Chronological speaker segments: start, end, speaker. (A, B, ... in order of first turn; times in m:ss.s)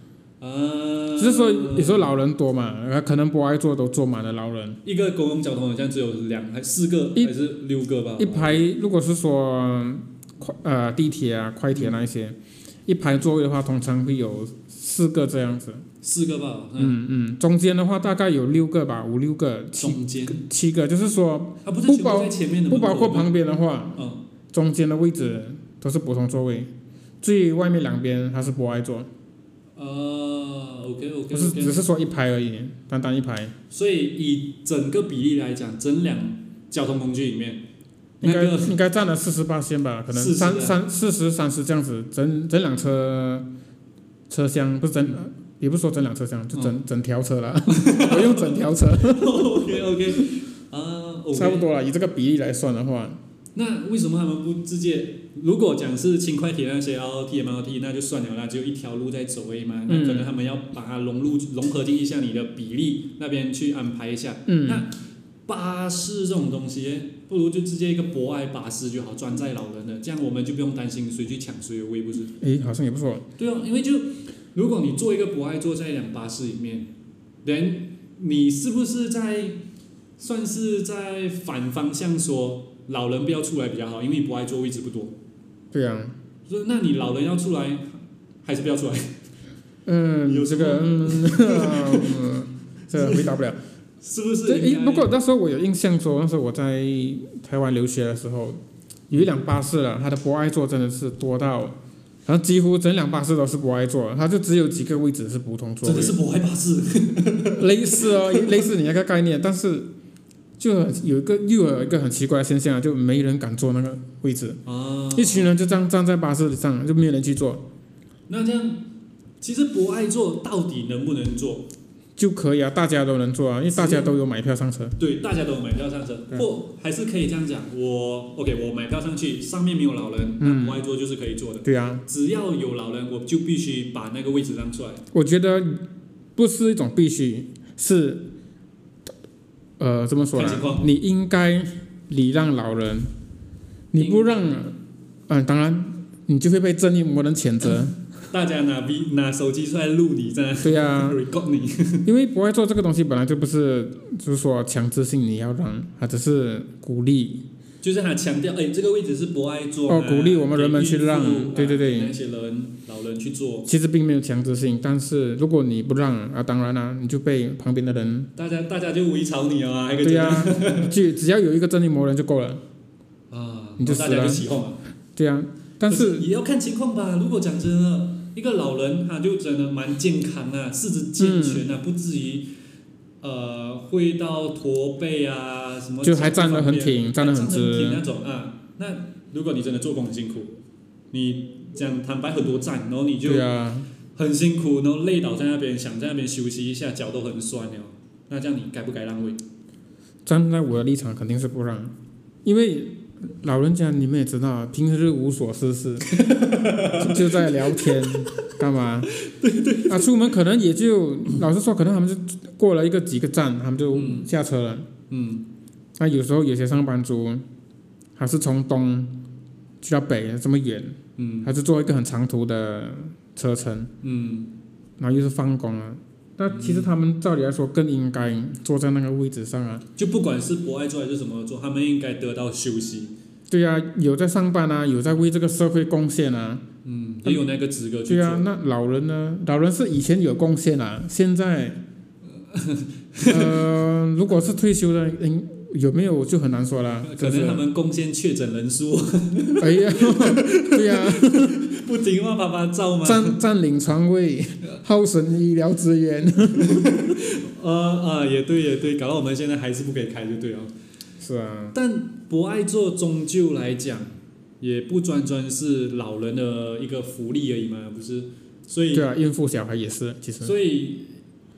0:00.4-0:02.1 A
0:01.2-0:04.8 B
0:04.8-0:08.7 A
0:08.2-0:15.8 B
0:16.0-0:17.0 A
0:16.8-0:26.7 B
0:19.8-0:20.4 A
0:21.6-0:23.3 A
0:24.0-0:24.2 A
0:27.2-0:29.1 B
0:29.8-0:31.8 A
0:31.3-0:33.5 B
0:33.7-0:37.6 A
0:38.2-0:38.8 A
0:38.2-0:43.5 B
0:40.1-0:40.8 A
0:44.3-0:49.6 B
0:47.7-0:51.7 A
0:51.3-0:53.2 B
0:53.5-1:04.9 A
0:59.9-1:00.3 B
1:04.5-1:04.8 B
1:05.5-1:12.3 A
1:12.4-1:13.2 B
1:13.4-1:16.9 A
1:17.4-1:19.6 A
1:20.2-1:25.2 A
1:25.7-1:26.1 B
1:26.4-1:29.1 A
1:29.8-1:33.6 B
1:30.3-1:32.2 A
1:32.9-1:33.3 A
1:34.0-1:35.1 A
1:34.5-1:46.2 B
1:45.8-1:48.7 A
1:47.6-1:49.9 B
1:50.6-1:54.6 B
1:54.6-1:55.5 A
1:55.1-1:57.6 B
1:58.3-1:58.8 A
1:59.4-2:01.7 A
2:02.2-2:05.0 B
2:03.7-2:04.1 A
2:05.0-2:15.0 A
2:10.4-2:10.8 B
2:11.6-2:12.0 B
2:15.1-2:15.8 B
2:16.4-2:18.3 B
2:19.8-2:23.1 B
2:20.3-2:20.9 A
2:23.9-2:24.8 B
2:24.0-2:24.6 A
2:25.3-2:28.0 B
2:28.3-2:32.1 A
2:30.6-2:31.2 B
2:32.0-2:37.4 B
2:37.8-2:43.7 A
2:39.9-2:42.1 B
2:43.6-2:48.3 B
2:48.4-2:50.9 A
2:50.0-2:52.6 B
2:53.3-2:54.8 A
2:53.8-2:54.5 B
2:55.2-2:56.3 B
2:55.8-3:02.5 A
3:01.2-3:01.7 B
3:03.2-3:10.5 A
3:06.0-3:08.0 B
3:11.1-3:13.5 A
3:13.2-3:13.9 B
3:14.1-3:19.4 A
3:20.2-3:29.1 B
3:26.1-3:28.3 A
3:29.1-3:30.3 A
3:29.9-3:34.9 B
3:33.9-3:34.3 A
3:35.1-3:35.5 A
3:36.0-3:37.4 B
3:38.2-3:39.2 B
3:39.8-3:43.9 B
3:41.2-3:41.5 A
3:44.0-3:44.5 A
3:45.0-3:49.8 B
3:46.5-3:46.9 A
3:50.0-3:53.1 A
3:53.5-3:56.6 B
3:56.8-3:58.4 A
3:58.1-4:01.8 B
4:02.4-4:03.7 A
4:03.2-4:07.6 B
4:07.0-4:13.4 A
4:09.6-4:11.6 B
4:13.0-4:17.2 B
4:16.6-4:20.7 A
4:21.2-4:21.7 B
4:21.7-4:29.1 A
4:28.9-4:30.5 B
4:30.4-4:31.1 A